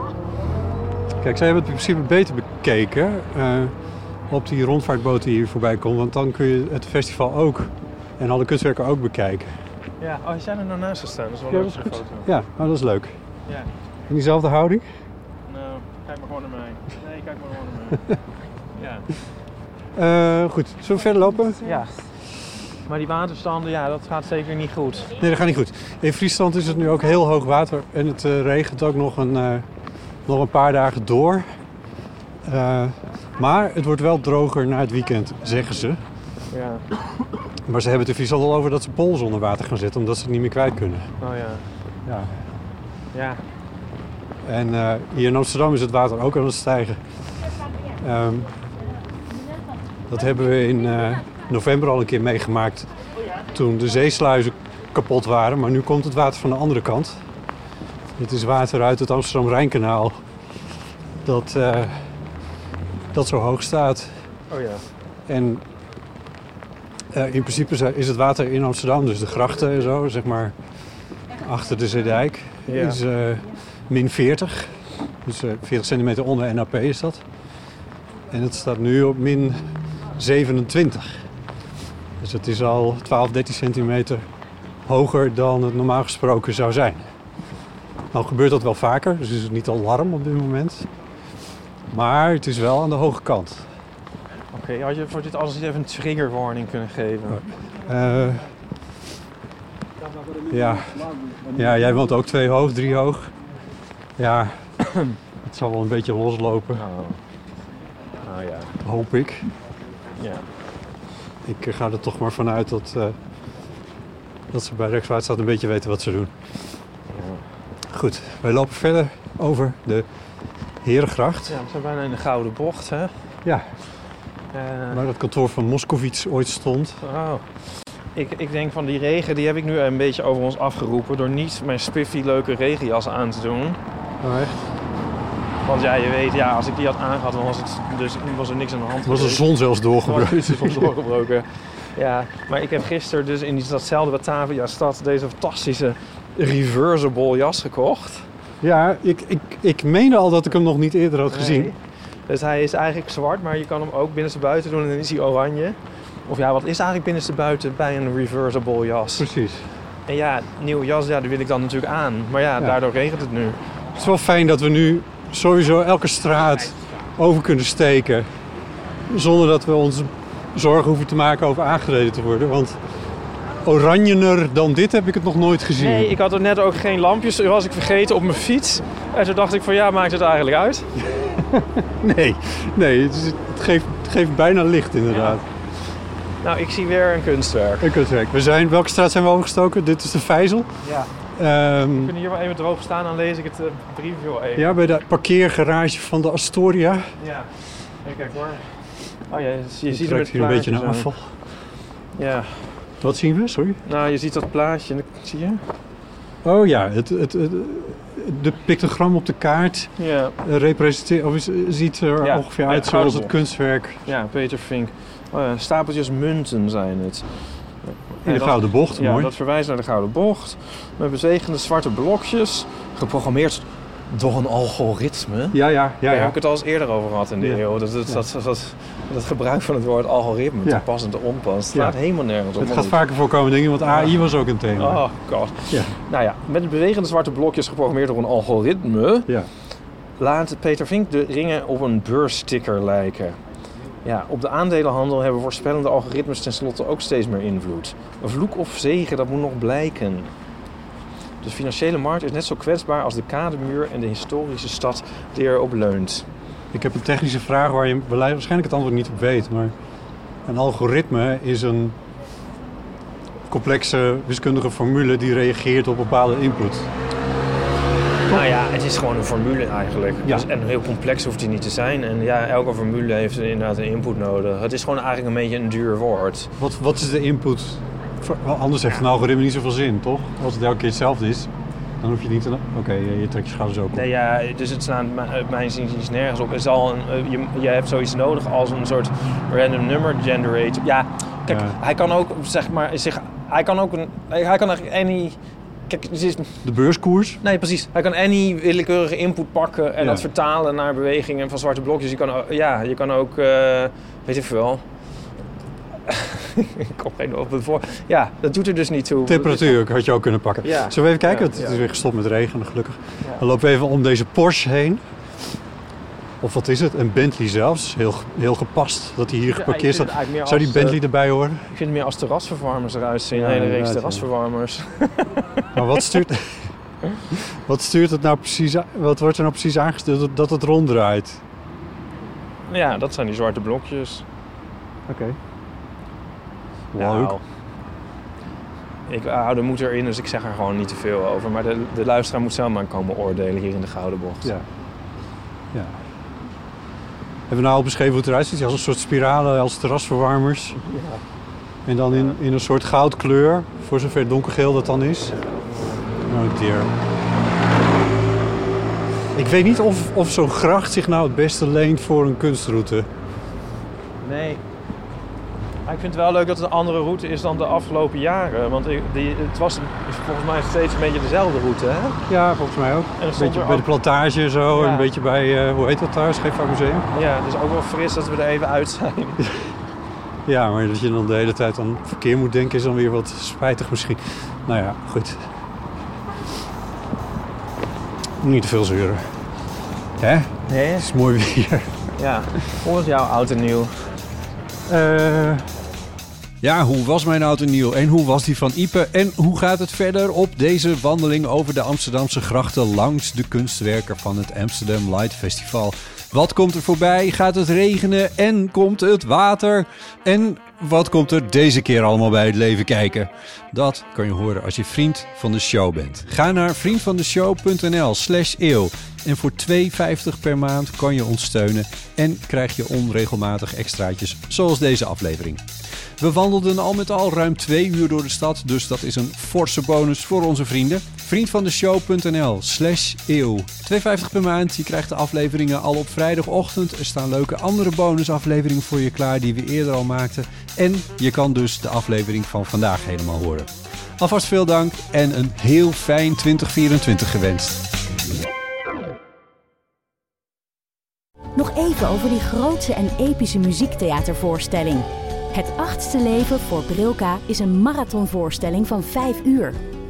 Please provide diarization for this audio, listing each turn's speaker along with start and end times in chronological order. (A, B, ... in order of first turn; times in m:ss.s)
0:01.2-0:03.7 A
0:04.3-0:09.5 A
0:10.0-0:12.3 B
0:11.5-0:13.1 A
0:14.1-0:14.8 A
0:15.5-0:18.1 B
0:18.8-0:19.1 B
0:20.0-0:21.6 A
0:21.6-0:21.9 B
0:22.9-0:25.1 B
0:25.2-0:29.6 A
0:30.3-0:31.5 A
0:32.4-0:36.0 A
0:36.5-0:36.8 B
0:37.7-0:41.1 A
0:41.2-0:41.6 B
0:42.1-0:42.3 A
0:43.1-0:43.4 B
0:44.4-0:47.0 A
0:48.0-0:48.5 A
0:50.1-0:52.9 A
0:53.5-0:57.2 A
0:58.2-1:00.2 A
1:01.2-1:01.9 A
1:03.1-1:04.1 A
1:04.5-1:04.8 B
1:05.3-1:05.6 A
1:07.1-1:10.5 A
1:11.4-1:14.7 A
1:12.7-1:13.0 B
1:15.2-1:17.2 A
1:18.3-1:19.6 A
1:20.2-1:21.2 A
1:22.2-1:24.2 A
1:24.9-1:27.1 A
1:28.1-1:30.9 A
1:31.9-1:33.6 A
1:34.5-1:37.4 B
1:37.3-1:38.5 A
1:40.5-1:43.3 A
1:44.2-1:44.6 A
1:45.4-1:46.8 A
1:46.8-1:47.2 B
1:48.2-1:48.7 B
1:48.8-1:49.5 A
1:50.2-1:50.4 B
1:51.4-1:53.2 A
1:54.5-1:56.3 A
1:57.1-1:57.4 B
1:57.9-2:00.1 A
2:00.8-2:01.6 A
2:01.5-2:03.1 B
2:04.5-2:05.0 B
2:04.9-2:07.0 A
2:07.0-2:07.4 B
2:08.2-2:13.8 B
2:14.2-2:14.6 A
2:15.6-2:19.5 B
2:19.1-2:20.9 A
2:20.0-2:28.3 B
2:28.6-2:31.7 A
2:31.3-2:31.8 B
2:32.3-2:39.2 B
2:39.2-2:39.6 A
2:40.1-2:43.6 B
2:44.0-2:48.3 A
2:49.1-2:52.8 A
2:53.6-2:56.1 A
2:55.8-3:00.9 B
3:01.0-3:05.4 A
3:05.1-3:05.4 B
3:06.4-3:07.9 B
3:07.8-3:10.7 A
3:10.8-3:11.1 B
3:11.4-3:12.1 A
3:12.0-3:14.7 B
3:14.6-3:17.0 A
3:17.2-3:17.5 B
3:18.0-3:18.6 B
3:19.3-3:21.1 B
3:19.9-3:21.3 A
3:22.2-3:22.5 B
3:23.0-3:23.8 A
3:23.9-3:25.6 B
3:26.4-3:29.9 A
3:30.0-3:30.4 B
3:30.4-3:34.0 A
3:32.2-3:33.4 B
3:34.1-3:37.2 B
3:37.8-3:53.0 B
3:38.2-3:39.3 A
3:45.5-3:46.4 A
3:47.4-3:48.2 A
3:52.6-3:55.0 A
3:53.8-3:54.2 B
3:54.8-3:59.3 B
3:55.7-3:56.0 A
4:00.2-4:03.4 B
4:04.0-4:10.3 B
4:11.4-4:16.3 B
4:16.7-4:19.7 A
4:20.5-4:22.0 A
4:23.5-4:26.9 A
4:28.3-4:36.5 B
4:36.6-4:41.5 A
4:42.0-4:44.0 A
4:44.0-4:55.4 B
4:51.5-4:51.8 A
4:55.9-4:56.6 B
4:56.6-4:57.4 A
4:57.4-5:04.8 B
5:00.0-5:00.3 A
5:06.1-5:09.8 B
5:09.3-5:15.0 A
5:10.6-5:11.8 B
5:16.4-5:21.6 A
5:19.5-5:21.0 B
5:21.7-5:25.7 B
5:23.3-5:24.3 A
5:25.7-5:26.6 A
5:27.3-5:31.4 A
5:32.7-5:34.2 B
5:35.1-5:35.4 A
5:36.9-5:37.4 A
5:37.0-5:37.4 B
5:39.1-5:44.5 B
5:45.7-5:46.0 A
5:47.5-5:50.8 A
5:50.8-5:51.2 B
5:51.9-5:55.4 A
5:52.1-5:52.4 B
5:56.2-5:56.9 A
5:59.4-6:03.1 A
6:04.2-6:04.6 B
6:05.9-6:12.2 B
6:12.3-6:17.1 A
6:13.2-6:13.9 B
6:14.7-6:15.1 B
6:17.1-6:19.4 B
6:20.5-6:25.4 A
6:28.4-6:29.2 A
6:30.2-6:31.9 A
6:30.7-6:31.1 B
6:32.2-6:33.9 B
6:34.9-6:35.6 A
6:36.6-7:05.6 A
7:06.2-7:27.9 A
7:31.6-7:39.8 C